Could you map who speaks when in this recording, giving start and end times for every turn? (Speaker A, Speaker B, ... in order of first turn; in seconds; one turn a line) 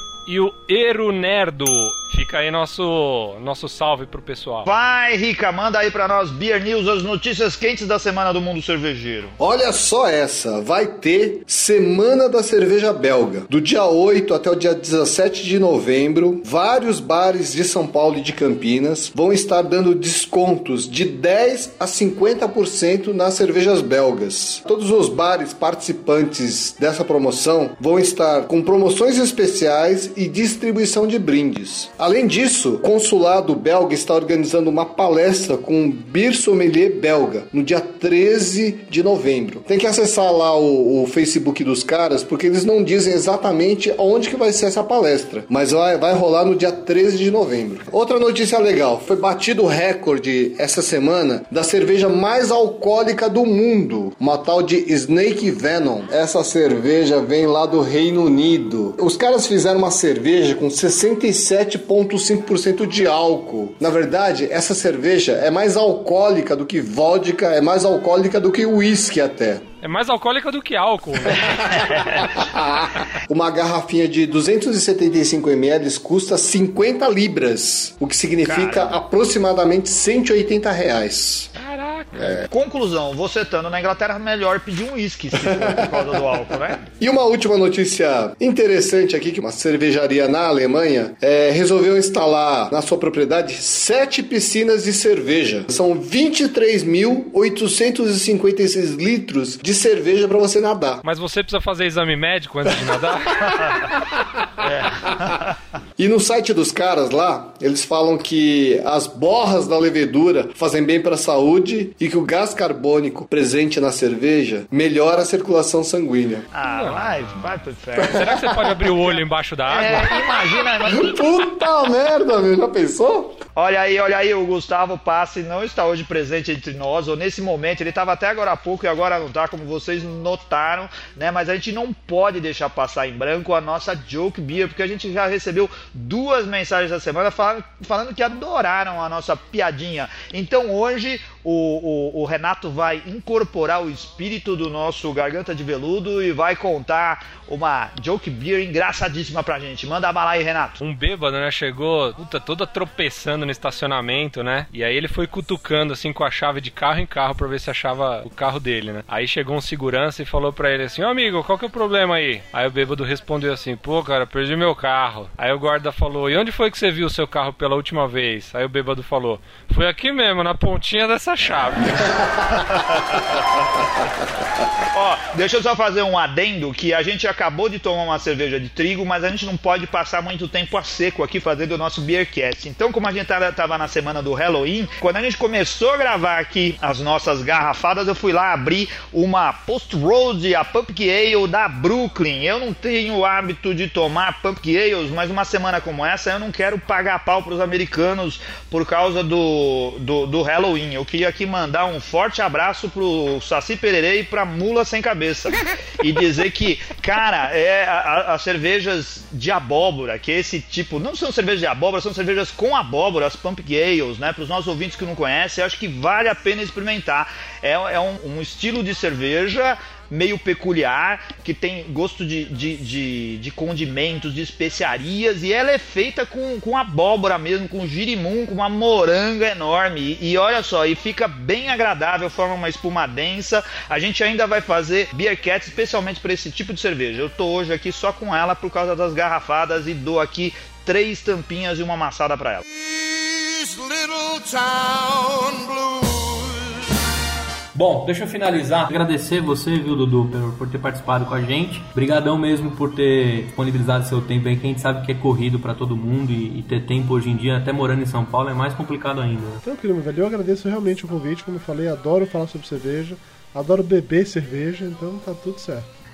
Speaker A: 0.2-4.7
Speaker B: 4.7-9.3
Speaker C: 9.4-69.6
Speaker A: 69.8-72.0
Speaker C: 71.3-81.5
Speaker B: 78.5-79.0
Speaker A: 81.6-82.5
Speaker C: 82.1-82.5
Speaker B: 82.5-86.8
Speaker C: 85.3-86.3
Speaker C: 87.0-101.0
Speaker A: 101.0-103.9
Speaker C: 102.7-102.9
Speaker B: 104.6-105.5
Speaker C: 106.0-116.4
Speaker B: 116.5-118.2
Speaker A: 116.7-117.0
Speaker C: 118.0-118.9
Speaker A: 118.1-120.3
Speaker B: 119.7-121.2
Speaker C: 119.9-123.4
Speaker B: 123.5-150.8
Speaker A: 150.8-172.6
Speaker B: 174.9-242.6
Speaker D: 242.7-246.9
Speaker E: 247.7-259.6
Speaker F: 259.6-265.9